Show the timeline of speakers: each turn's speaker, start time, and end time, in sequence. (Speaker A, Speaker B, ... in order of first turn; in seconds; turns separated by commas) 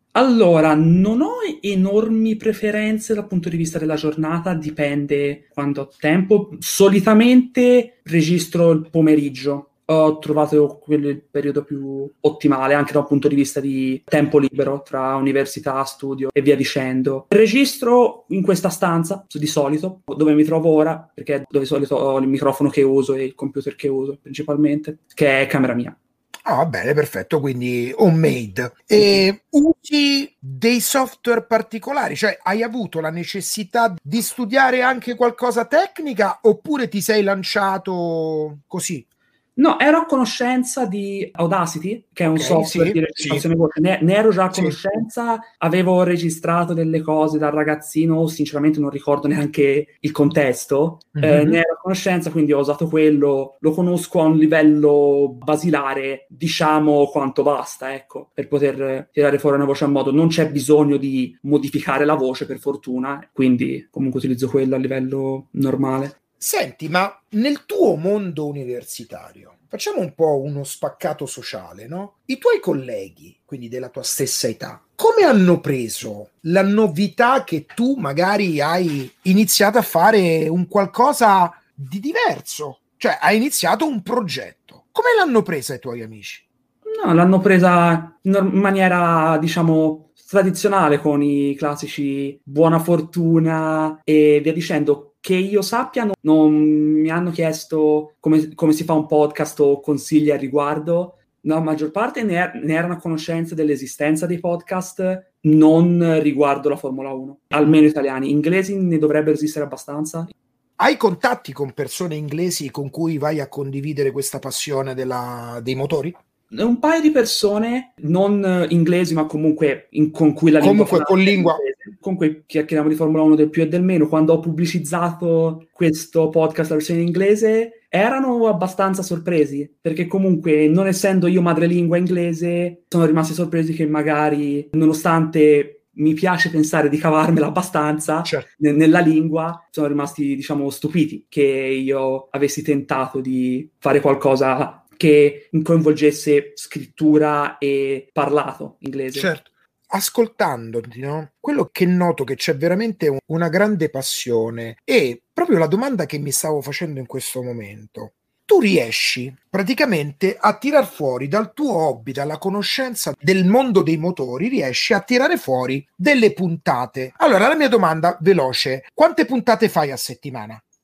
Speaker A: 0.1-25.9, Speaker B: 26.4-39.0, Speaker A: 39.6-66.1, Speaker B: 42.3-43.4, Speaker B: 44.5-44.8, Speaker B: 51.1-51.6, Speaker B: 66.4-86.4, Speaker A: 86.8-110.3, Speaker B: 110.8-116.2, Speaker A: 116.5-149.3, Speaker B: 120.6-121.6, Speaker B: 149.1-170.6